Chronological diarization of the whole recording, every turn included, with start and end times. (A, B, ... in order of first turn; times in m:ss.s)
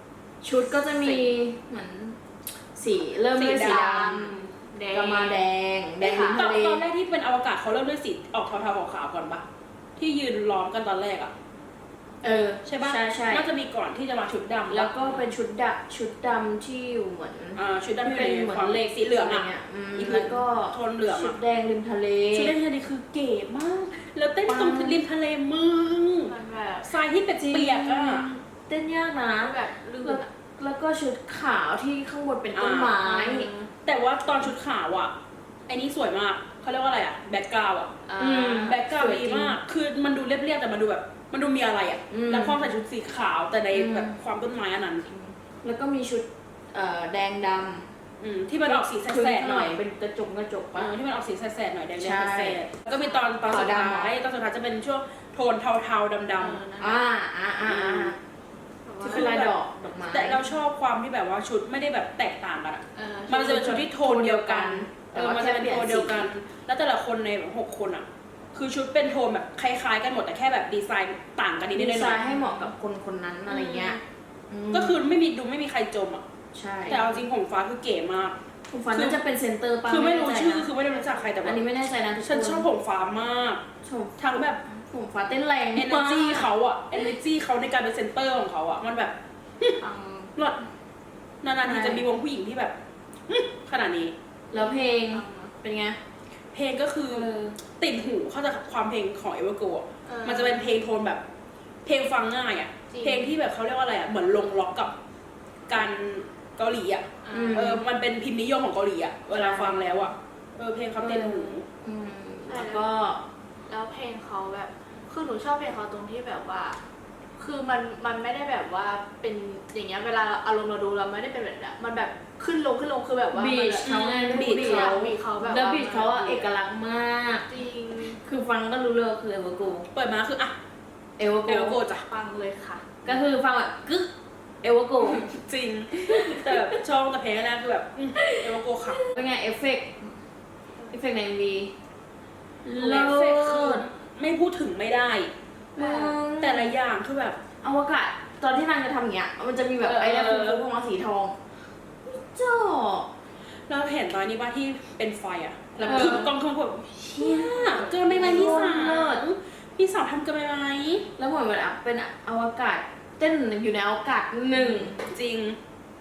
0:00.4-0:04.4 A
0:00.7-0:01.3 B
0:03.3-0:04.1 C
0:03.6-0:05.4 B
0:04.9-0:06.8 A
0:06.0-0:06.5 B
0:06.3-0:09.4 C
0:10.0-0:11.3 C
0:12.2-0:13.5 A
0:12.6-0:15.3 C
0:14.7-0:22.6 A
0:17.6-0:21.4 C
0:22.3-0:28.3 C
0:24.5-0:25.0 A
0:26.2-0:26.9 B
0:27.4-0:33.5 A
0:29.4-0:30.3 B
0:32.5-0:35.1 C
0:35.7-0:45.1 C
0:38.0-0:38.6 B
0:38.2-0:39.6 A
0:42.1-0:42.7 A
0:43.7-0:44.2 A
0:45.6-0:47.9 A
0:48.2-0:49.8 C
0:48.6-0:50.9 A
0:50.8-0:56.6 C
0:52.0-0:52.6 A
0:52.9-0:53.4 B
0:53.4-0:54.1 A
0:56.4-0:57.0 B
0:56.8-0:58.2 A
0:57.6-0:58.2 C
0:58.9-0:59.3 B
0:59.0-0:59.5 C
0:59.0-1:00.4 A
1:00.1-1:12.7 C
1:03.0-1:03.9 B
1:03.8-1:06.3 A
1:11.7-1:15.0 A
1:13.5-1:14.0 C
1:14.7-1:16.2 C
1:16.5-1:17.3 A
1:16.9-1:18.4 C
1:18.7-1:20.7 A
1:18.9-1:19.2 C
1:19.8-1:21.6 C
1:21.4-1:22.7 A
1:22.2-1:23.6 C
1:23.8-1:26.5 A
1:24.2-1:24.6 C
1:25.7-1:29.8 C
1:29.8-1:30.4 B
1:31.4-1:32.8 C
1:31.6-1:32.0 A
1:33.3-1:34.1 C
1:34.5-1:36.0 A
1:34.6-1:35.5 B
1:36.5-1:41.2 C
1:37.1-1:37.6 A
1:40.0-1:40.7 B
1:41.8-1:44.9 C
1:42.9-1:43.4 B
1:45.7-1:51.7 C
1:47.2-1:47.8 B
1:47.3-1:47.8 A
1:49.3-1:49.8 A
1:51.0-1:53.2 A
1:52.5-1:52.9 B
1:53.7-1:56.8 B
1:57.4-2:06.5 B
2:03.3-2:07.5 A
2:04.2-2:05.0 C
2:07.5-2:08.2 B
2:08.2-2:09.9 A
2:09.9-2:10.6 C
2:11.2-2:11.8 A
2:11.4-2:12.1 C
2:12.0-2:13.0 B
2:13.0-2:14.1 A
2:14.6-2:15.3 A
2:15.0-2:19.0 C
2:16.1-2:16.8 A
2:18.2-2:20.1 A
2:20.9-2:21.7 A
2:22.6-2:23.9 A
2:22.7-2:25.3 C
2:25.8-2:26.7 A
2:25.8-2:26.2 B
2:26.3-2:27.4 C
2:27.6-2:31.5 A
2:29.8-2:30.6 C
2:32.0-2:33.1 A
2:33.5-2:41.1 C
2:35.8-2:36.3 A
2:37.0-2:39.2 A
2:41.2-2:45.0 A
2:44.6-2:45.6 C